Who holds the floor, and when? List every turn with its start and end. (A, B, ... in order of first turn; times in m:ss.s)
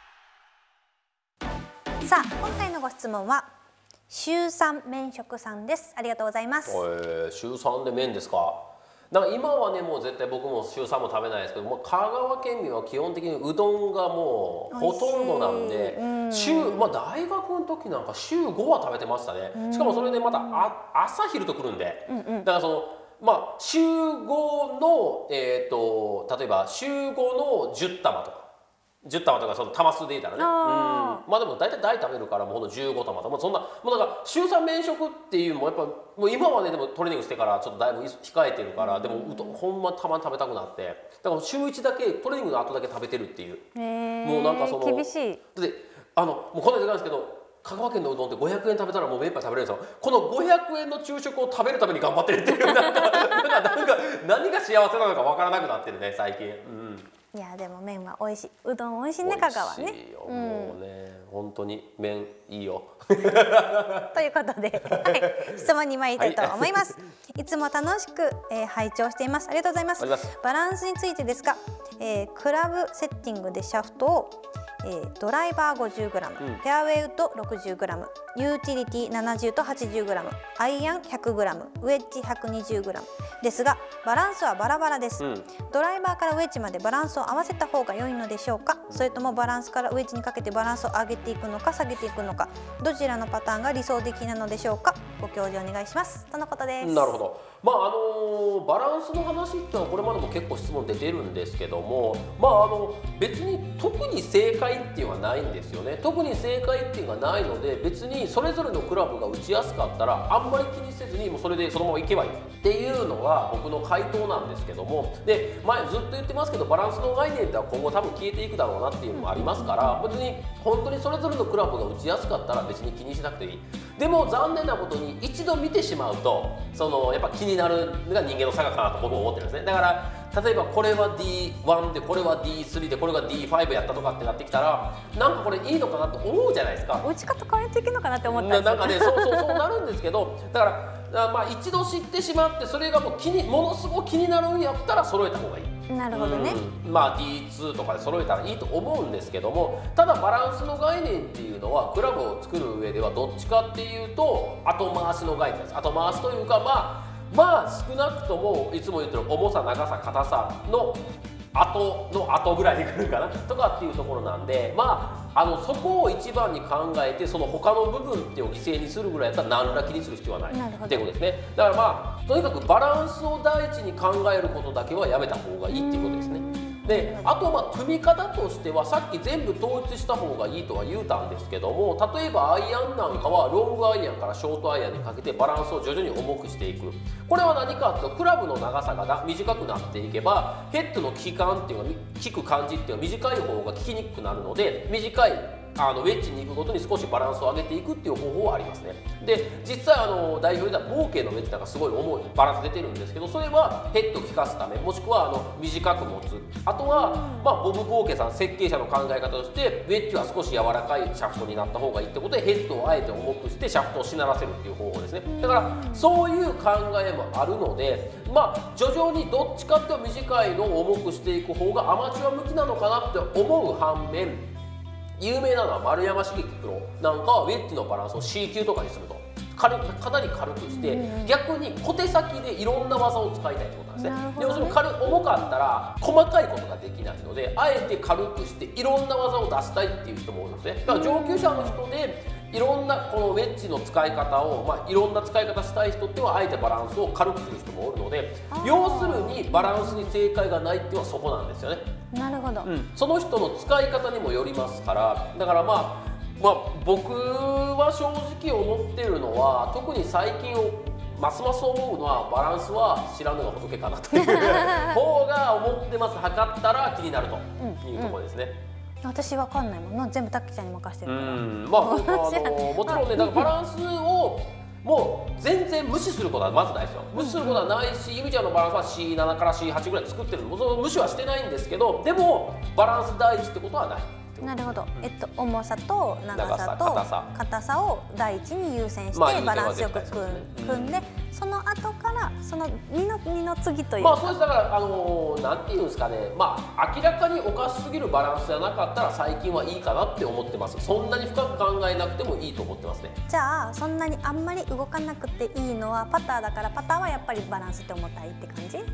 0:02.0-0:03.5 A
0:04.1-0:06.8 A
0:06.7-0:28.4 B
0:14.7-0:16.9 A
0:19.5-0:20.7 A
0:22.1-0:22.5 A
0:29.0-0:43.7 B
0:30.4-0:31.2 A
0:38.8-0:39.6 A
0:43.8-0:45.4 A
0:44.2-0:57.1 B
0:53.0-0:53.4 A
0:57.3-1:00.8 A
0:59.2-1:04.1 B
1:04.1-1:37.2 A
1:04.8-1:07.1 B
1:10.0-1:10.3 B
1:25.2-1:25.5 B
1:28.9-1:29.2 B
1:36.8-2:17.1 B
1:59.1-2:00.1 A
2:17.0-2:19.6 A
2:18.2-3:44.5 B
2:25.9-2:26.6 A
2:50.5-2:51.1 A
2:55.7-2:57.4 A
3:26.9-3:27.5 A
3:35.3-3:36.2 A
3:45.2-4:11.8 B
3:50.7-3:51.4 A
3:54.0-3:55.0 A
4:00.9-4:01.8 A
4:08.5-4:10.1 A
4:12.1-4:12.7 A
4:12.6-4:28.6 B
4:24.1-4:25.0 A
4:27.6-4:28.2 A
4:29.0-4:33.5 A
4:31.1-4:45.1 B
4:37.2-4:37.7 A
4:44.4-4:54.4 A
4:46.3-4:47.3 B
4:49.1-4:51.1 B
4:54.0-5:03.2 B
5:00.9-5:01.6 A
5:03.3-5:08.8 A